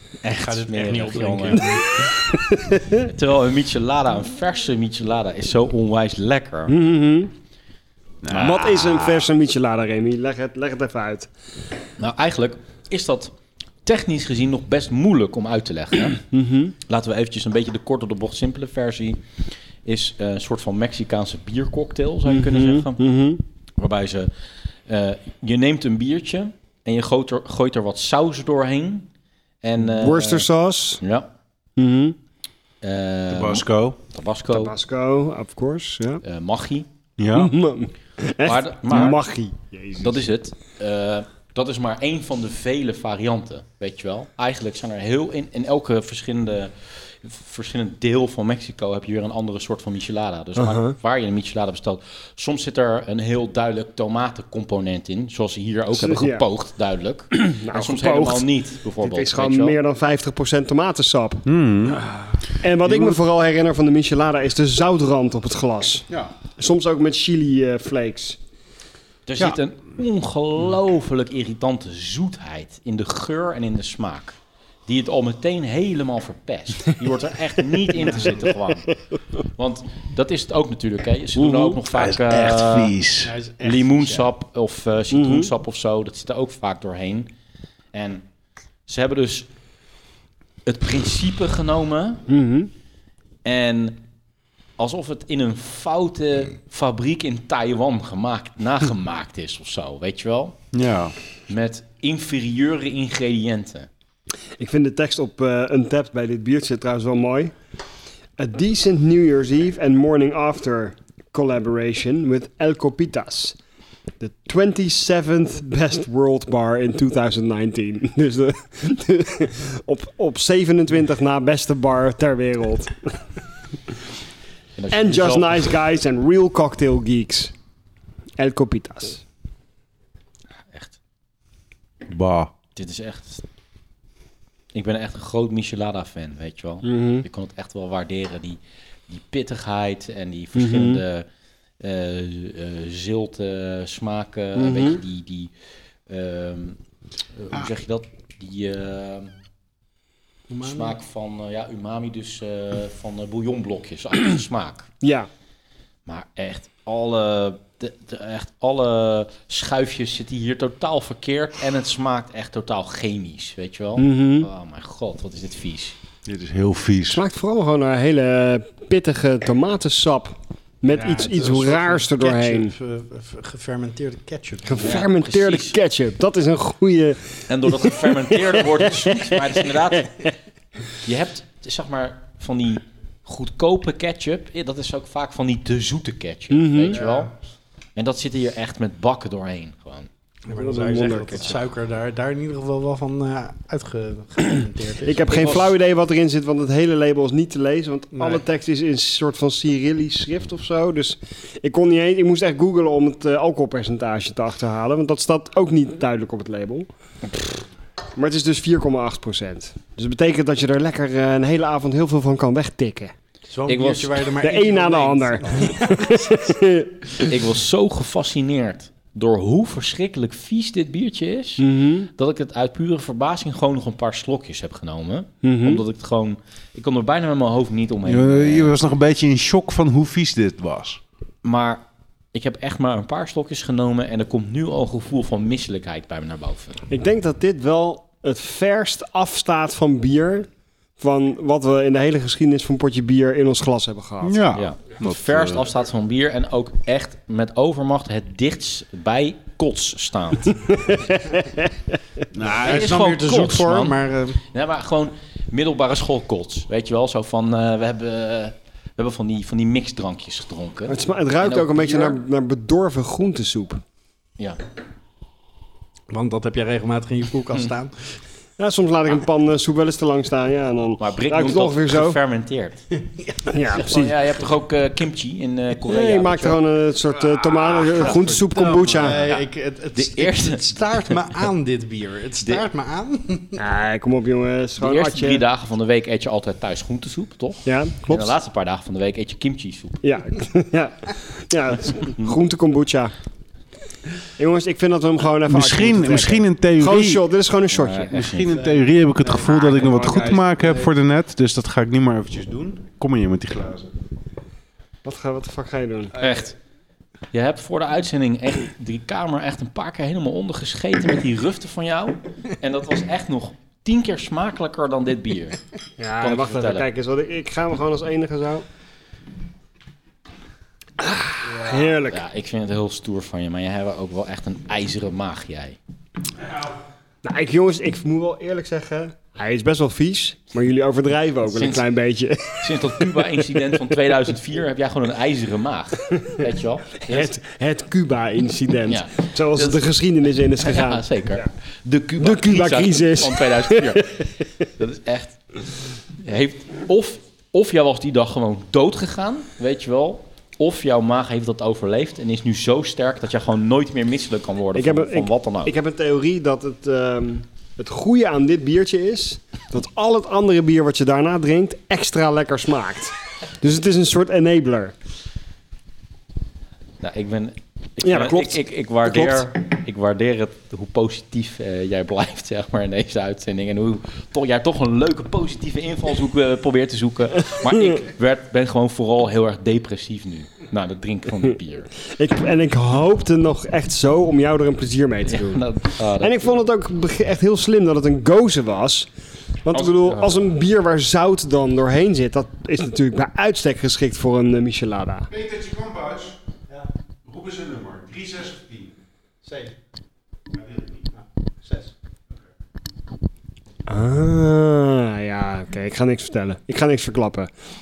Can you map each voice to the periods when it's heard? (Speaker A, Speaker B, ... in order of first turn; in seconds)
Speaker A: 0.2-1.9, 3.0-6.8, 8.3-9.3, 12.0-13.3, 13.8-16.2, 16.9-19.2, 19.8-23.0, 23.8-24.3, 24.9-29.1, 29.6-30.5, 31.0-31.3, 32.8-34.7, 36.2-36.9, 38.4-39.2, 40.0-59.8, 69.3-78.9, 79.5-83.0, 83.6-87.3, 87.9-88.2, 88.9-89.5, 90.7-92.2, 93.4-94.0, 94.8-100.6, 101.5-103.9, 124.8-125.8, 130.7-131.0, 132.8-133.4, 134.7-141.3, 141.8-145.5, 146.1-146.8, 147.4-149.3, 150.6-154.9, 156.1-166.0, 174.8-175.8, 177.5-180.3, 181.0-187.3, 188.0-190.1, 195.3-195.7, 213.7-214.3, 217.2-228.8, 231.4-236.8, 244.6-250.6, 252.5-262.2, 271.0-272.8, 273.7-276.6, 278.0-278.3, 278.9-281.2, 284.8-290.0, 291.9-292.4, 297.7-298.6, 306.2-306.6, 307.3-315.6, 316.2-316.9, 322.1-325.8, 331.5-331.9, 332.6-337.4, 338.9-339.9, 340.6-345.4, 346.2-355.8, 367.0-381.9, 385.3-386.4, 389.7-390.5
Speaker B: 0.3-2.1, 78.1-78.4, 83.2-84.3, 150.5-150.9, 170.9-175.0, 186.9-187.3, 190.4-195.7, 198.2-198.4, 213.5-216.4, 252.5-254.4, 266.1-268.2, 273.2-273.6, 277.4-283.6, 298.5-300.9, 306.1-306.5, 399.4-399.8, 401.1-401.9
Speaker C: 1.6-2.6, 6.7-7.3, 8.4-11.3, 16.3-16.7, 22.3-23.4, 29.8-31.0, 31.8-32.2, 34.5-36.2, 37.3-40.2, 50.6-51.0, 56.0-56.5, 57.3-66.0, 66.6-68.4, 78.1-78.5, 81.4-81.8, 85.1-85.5, 92.3-92.7, 104.6-107.5, 108.4-113.6, 114.2-123.2, 124.9-127.5, 128.4-129.2, 136.8-137.3, 140.6-141.0, 144.6-145.0, 155.0-155.3, 164.0-164.5, 167.1-172.7, 174.7-180.3, 186.5-187.0, 190.5-191.5, 195.0-206.9, 208.2-213.1, 214.4-217.3, 221.6-222.1, 225.4-225.8, 236.9-244.4, 250.7-252.0, 260.9-263.8, 268.6-272.2, 273.5-274.1, 275.8-279.2, 283.6-285.4, 287.7-288.4, 290.0-293.1, 294.4-298.2, 305.0-306.1, 316.0-318.7, 321.0-322.2, 327.2-333.4, 337.1-341.4, 342.2-344.3, 354.7-364.9, 368.0-369.5, 377.7-378.1, 382.0-389.1, 389.6-395.3, 403.9-407.5
Speaker D: 8.2-8.6, 33.3-34.0, 37.2-37.5, 61.5-62.0, 62.8-63.2, 81.9-83.3, 100.7-101.1, 132.1-132.5, 166.2-167.2, 228.1-231.0, 244.2-245.7, 252.3-253.1, 295.5-297.3, 298.1-303.9, 395.3-396.4, 397.3-398.9, 400.6-401.0